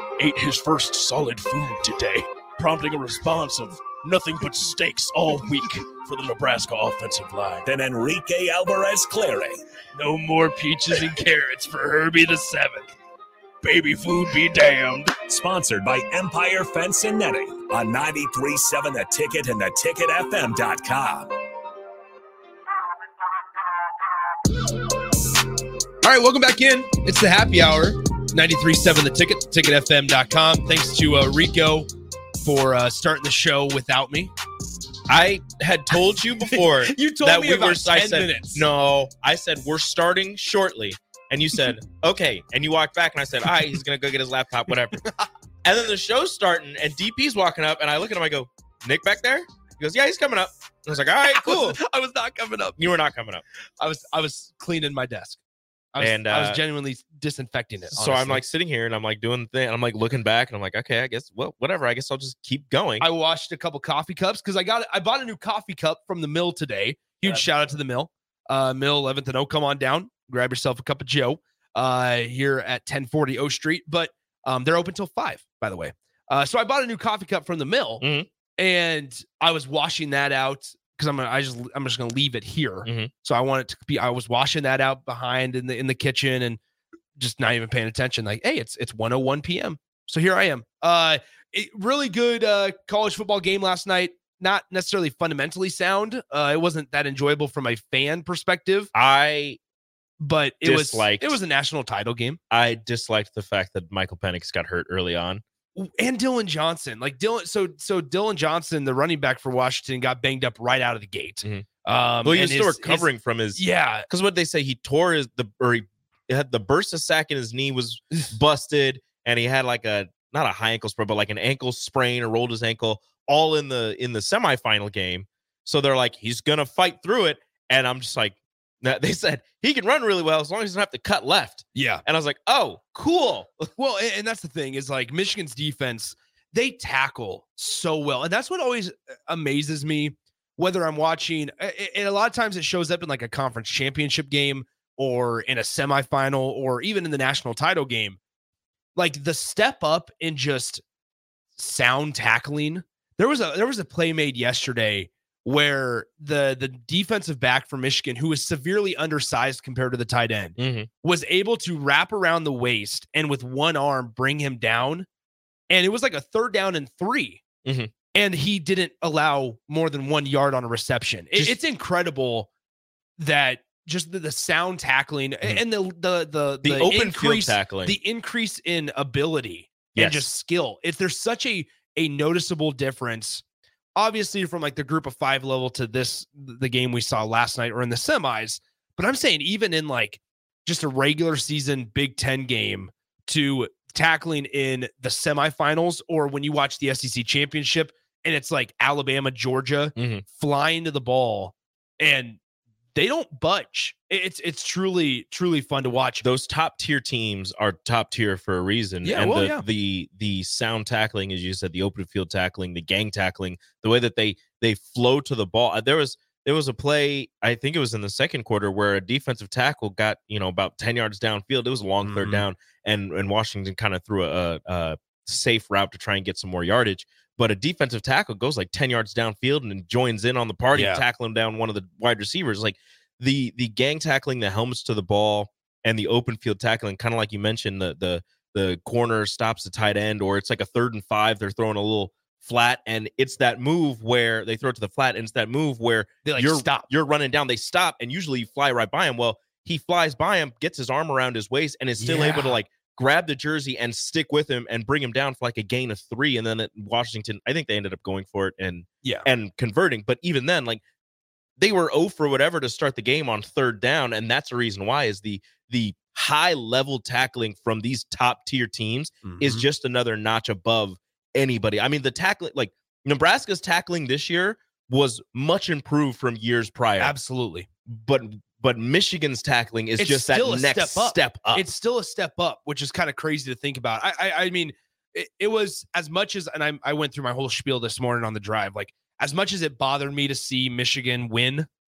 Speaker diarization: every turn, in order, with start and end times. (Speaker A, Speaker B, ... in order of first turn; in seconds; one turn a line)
Speaker A: 0.2-7.7
Speaker B: 7.7-9.6
Speaker A: 10.0-12.9
Speaker A: 13.6-15.2
Speaker B: 15.2-21.3
Speaker C: 26.0-31.9
Speaker C: 32.4-34.3
Speaker D: 35.1-45.0
Speaker C: 36.4-38.7
Speaker D: 45.6-51.8
Speaker C: 51.2-52.9
Speaker D: 52.8-53.4
Speaker C: 53.8-55.4
Speaker C: 55.9-58.4
Speaker D: 56.0-56.6
Speaker D: 57.9-63.1
Speaker C: 63.0-78.1
Speaker D: 78.0-78.3
Speaker C: 78.6-86.6
Speaker D: 82.8-83.1
Speaker C: 87.2-98.9
Speaker D: 98.9-99.6
Speaker C: 100.2-102.4
Speaker D: 100.6-101.4
Speaker D: 102.5-105.4
Speaker C: 105.8-114.1
Speaker D: 112.2-133.7
Speaker C: 131.7-132.0
Speaker C: 133.8-148.2
Speaker C: 148.9-150.8
Speaker C: 151.6-165.1
Speaker D: 160.6-160.9
Speaker C: 165.7-167.4
Speaker D: 167.7-167.9
Speaker C: 168.1-172.5
Speaker C: 173.2-183.4
Speaker D: 176.6-178.0
Speaker D: 179.9-180.3
Speaker C: 184.0-202.4
Speaker D: 200.0-200.2
Speaker C: 202.9-206.2
Speaker D: 206.2-260.8
Speaker C: 209.0-209.7
Speaker C: 222.0-222.5
Speaker C: 230.7-231.0
Speaker C: 246.2-246.9
Speaker C: 252.0-252.6
Speaker D: 261.6-277.2
Speaker C: 269.2-269.7
Speaker C: 277.0-277.7
Speaker D: 277.9-281.6
Speaker C: 280.0-291.7